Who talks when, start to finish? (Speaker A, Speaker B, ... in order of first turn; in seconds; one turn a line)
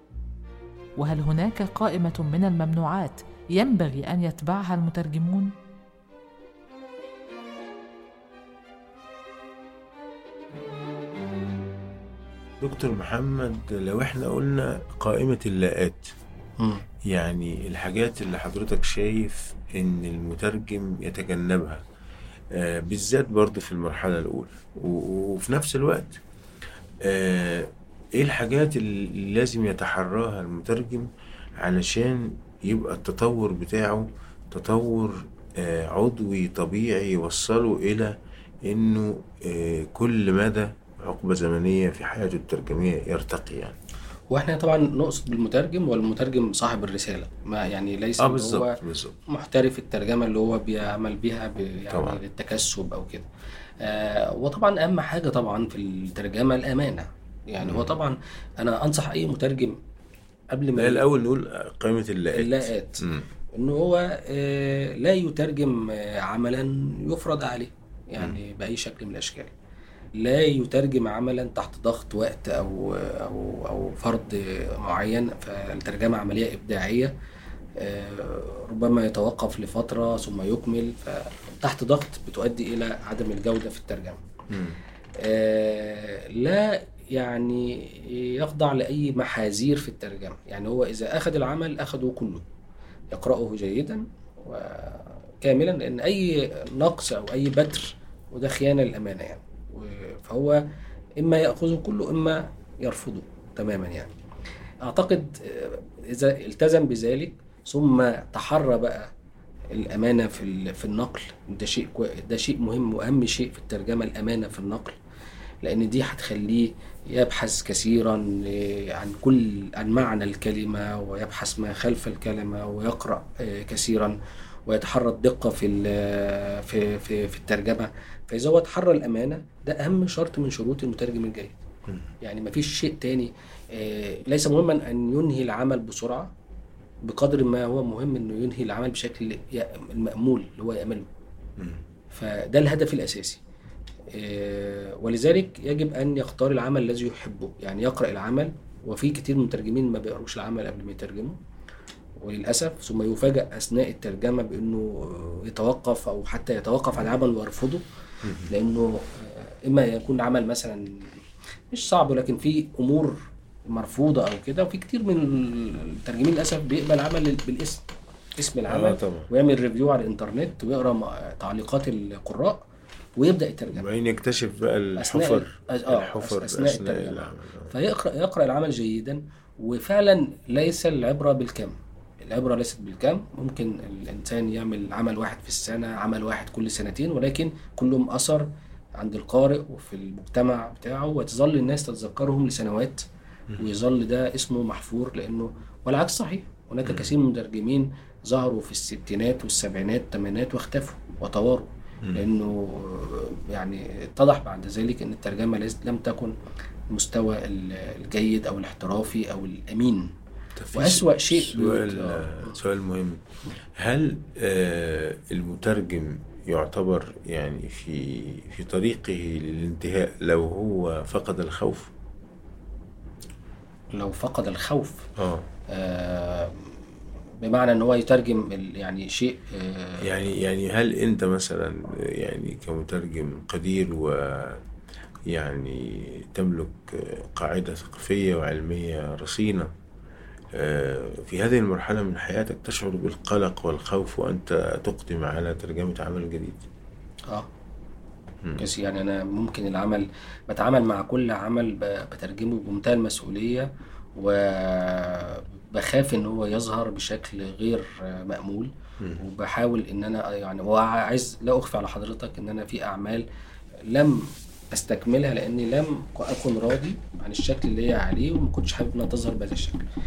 Speaker A: 1.0-5.5
Speaker B: 12.6-16.1
Speaker C: 16.6-16.8
Speaker B: 17.1-21.8
Speaker B: 22.5-26.2
Speaker B: 27.0-31.1
Speaker B: 31.6-38.1
Speaker B: 38.6-43.8
Speaker C: 44.3-48.7
Speaker B: 48.2-49.2
Speaker C: 49.3-53.3
Speaker B: 51.9-52.2
Speaker C: 53.8-59.8
Speaker B: 57.6-58.0
Speaker C: 60.5-61.1
Speaker B: 60.7-63.3
Speaker C: 62.3-69.5
Speaker C: 70.2-77.1
Speaker C: 77.8-84.2
Speaker B: 84.5-84.8
Speaker C: 85.2-92.4
Speaker C: 93.1-100.6
Speaker C: 101.2-104.1
Speaker C: 104.8-109.1
Speaker C: 109.7-115.0
Speaker C: 115.6-131.6
Speaker C: 132.2-136.3
Speaker C: 137.0-141.1
Speaker C: 142.1-143.4
Speaker C: 144.1-151.3
Speaker C: 152.2-157.8
Speaker B: 158.2-158.5
Speaker C: 158.5-160.9
Speaker C: 161.7-163.2
Speaker C: 163.7-167.8
Speaker C: 168.4-172.6
Speaker B: 168.7-169.3
Speaker C: 173.2-173.9
Speaker B: 173.7-177.7
Speaker C: 175.0-193.0
Speaker C: 193.6-206.3
Speaker B: 196.8-197.1
Speaker C: 206.9-210.1
Speaker B: 210.6-213.2
Speaker C: 210.7-212.6
Speaker B: 213.8-221.9
Speaker C: 223.9-225.1
Speaker B: 225.2-225.5
Speaker C: 225.7-226.7
Speaker C: 227.4-230.2
Speaker B: 230.0-234.6
Speaker B: 235.3-239.7
Speaker B: 240.6-246.6
Speaker C: 248.6-263.2
Speaker C: 263.9-269.8